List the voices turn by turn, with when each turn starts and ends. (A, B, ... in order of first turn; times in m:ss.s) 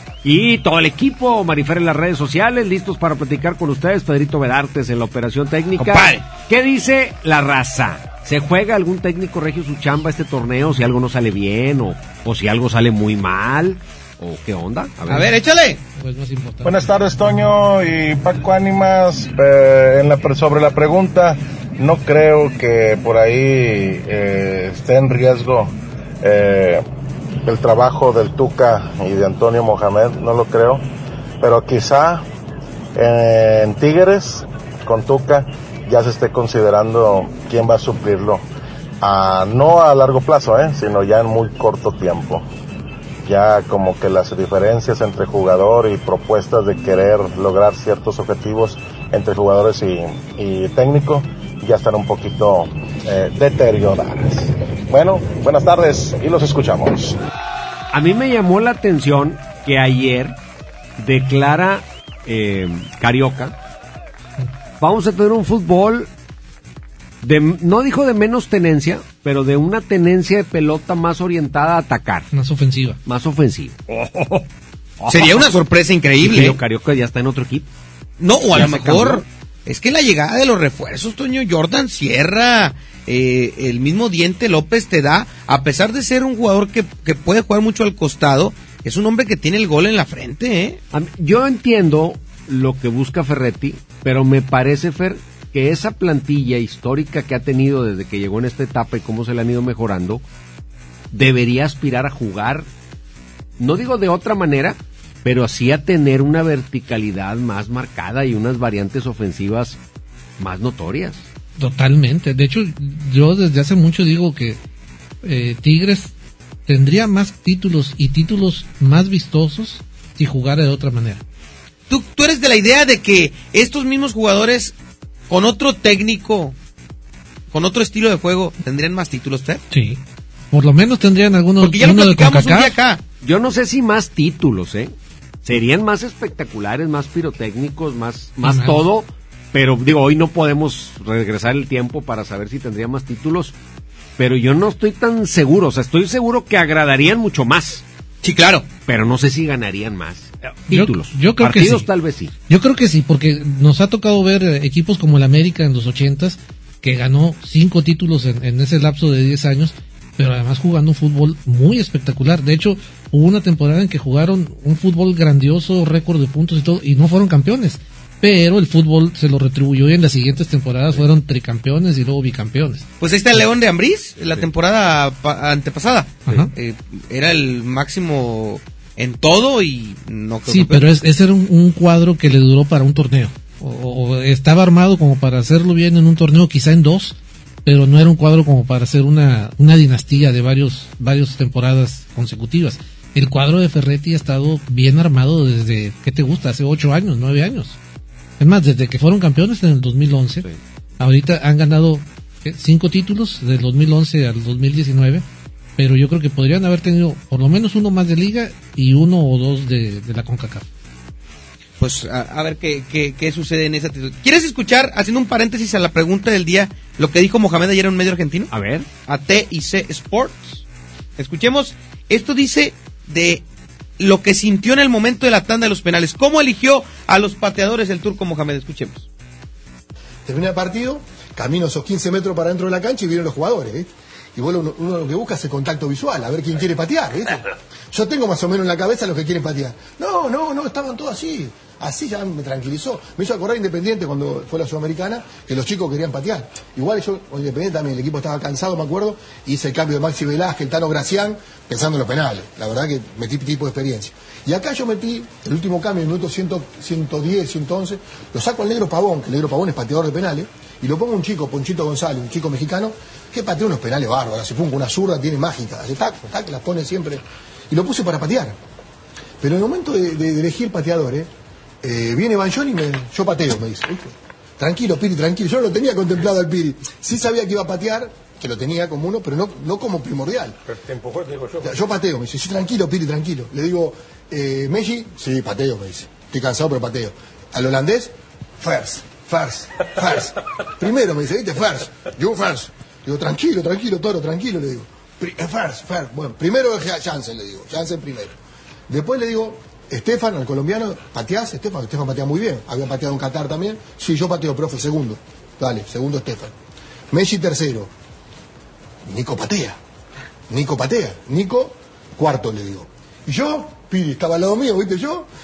0:00.2-0:15.3 A
0:05.8-0:06.2 B
0:15.1-0:15.8 B
0:16.0-0:17.0 C
0:16.6-0:26.8 D
0:27.4-0:30.8 D
0:31.4-0:32.2 D
0:32.9-0:38.4 D
0:39.0-0:42.4 D
0:43.2-0:57.2 D
0:57.9-1:00.4 A
1:01.0-1:03.5 A
1:04.8-1:06.1 A
1:07.2-1:12.3 A
1:12.3-1:13.0 C
1:13.0-1:14.4 A
1:15.0-1:15.6 A
1:15.1-1:16.6 B
1:16.2-1:17.7 A
1:18.2-1:30.8 B
1:18.6-1:19.1 C
1:18.7-1:19.2 A
1:30.9-1:40.2 A
1:41.1-1:42.7 A
1:43.6-1:49.8 A
1:50.4-1:51.2 A
1:51.6-1:54.6 C
1:55.2-1:56.1 C
1:56.6-2:01.2 C
2:01.9-2:04.7 B
2:05.3-2:06.5 B
2:07.5-2:09.6 B
2:09.7-2:10.0 C
2:10.5-2:12.8 C
2:11.6-2:13.0 B
2:13.2-2:14.9 A
2:15.4-2:23.5 A
2:18.4-2:18.8 C
2:24.2-2:27.8 A
2:28.2-2:28.7 B
2:28.9-2:32.3 A
2:30.7-2:31.9 C
2:32.5-2:52.9 C
2:53.0-3:00.9 B
2:56.2-2:56.5 C
3:00.5-3:17.8 C
3:18.4-3:20.4 C
3:21.0-3:25.2 C
3:25.8-3:30.6 C
3:31.8-3:38.5 B
3:38.5-3:38.9 A
3:39.1-3:40.6 B
3:41.2-3:43.4 B
3:44.0-3:49.0 B
3:50.2-4:28.6 E
4:29.4-4:31.3 E
4:31.8-4:40.6 E
4:41.6-4:58.3 E
4:58.9-5:06.5 E
5:07.1-5:07.9 E
5:09.1-5:09.8 E
5:10.5-5:15.3 E